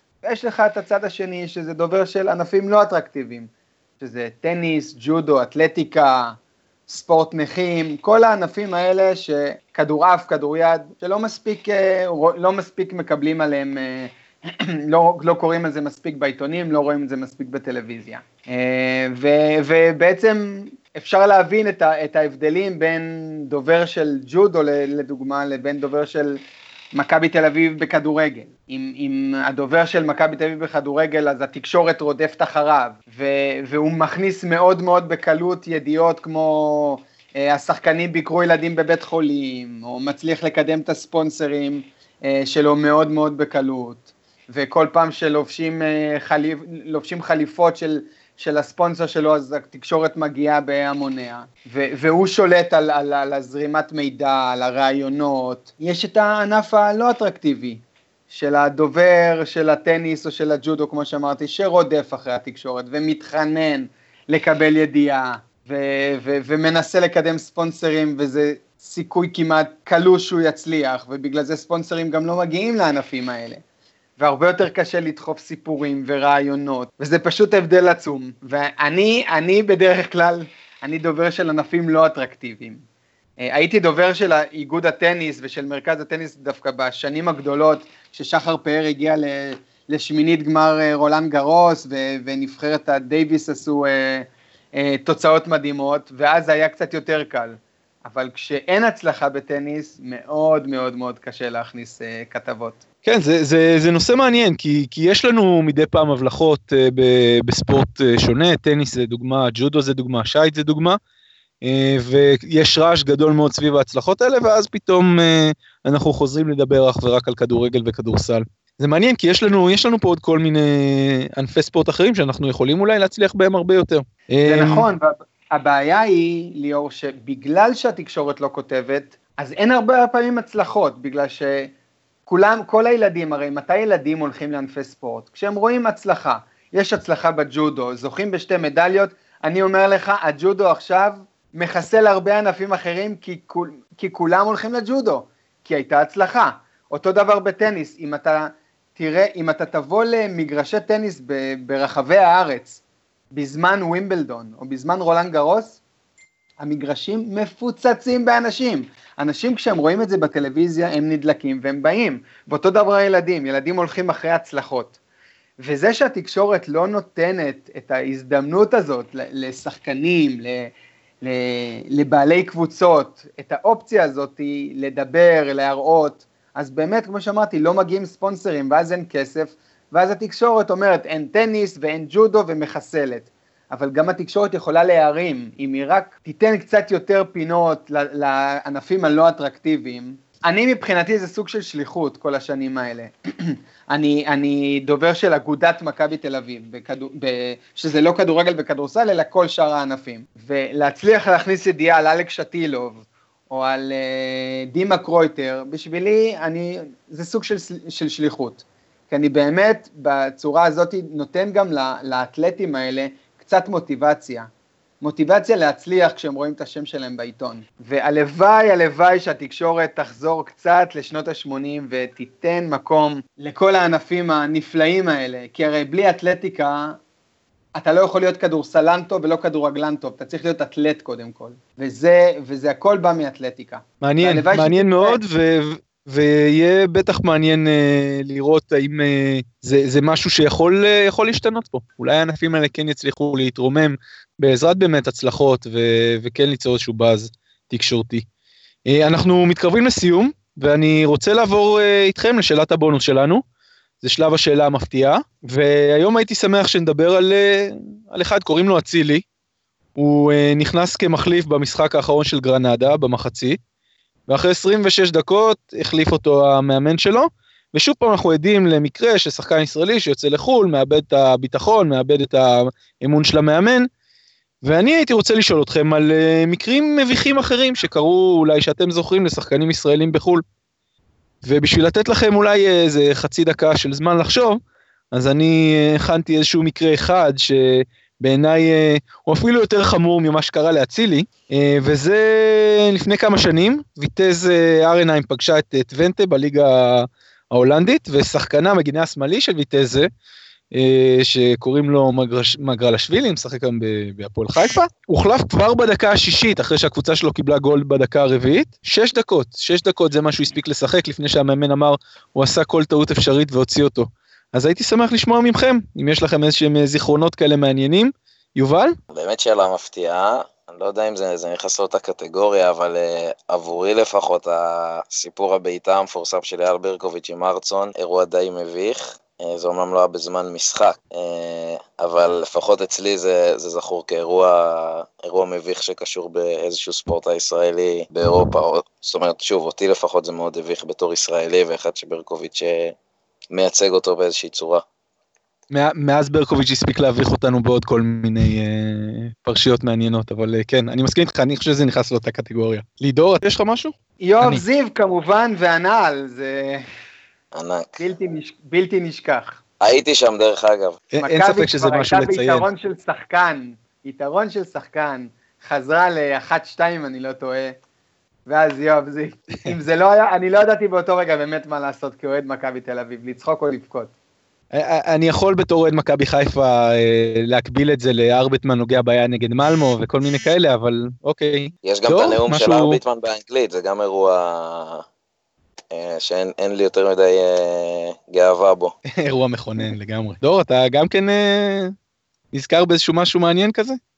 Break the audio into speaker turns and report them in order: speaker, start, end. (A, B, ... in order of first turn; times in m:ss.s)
0:00.2-0:03.5 A
0:04.0-0:06.4 A
0:06.9-0:26.4 A
0:26.9-1:13.6 A
1:14.2-1:22.8 A
1:23.4-1:42.8 A
1:43.0-1:51.0 B
1:51.6-2:04.9 B
2:04.4-2:11.7 A
2:12.3-2:32.8 A
2:33.3-2:35.8 A
2:36.6-2:44.9 A
2:45.6-2:50.7 A
2:51.2-3:34.5 A
3:35.0-3:47.0 A
3:47.7-3:55.2 A
3:54.0-4:08.2 B
4:08.9-4:13.4 B
4:14.0-4:19.2 B
4:20.0-4:23.6 B
4:24.3-4:33.9 B
4:34.6-4:40.4 B
4:41.4-4:44.6 B
4:45.1-5:00.1 B
5:00.7-5:19.0 B
5:19.1-5:42.9 C
5:43.5-5:44.8 C
5:45.7-5:54.6 B
5:54.2-5:56.8 A
5:57.5-5:58.0 C
5:58.0-5:59.6 A
5:59.8-6:01.0 C
6:01.1-6:02.7 B
6:01.2-6:07.8 A
6:08.5-6:14.1 A
6:14.7-6:23.0 B
6:21.8-6:25.0 C
6:25.9-6:28.9 C
6:29.2-6:31.9 B
6:32.5-6:34.0 B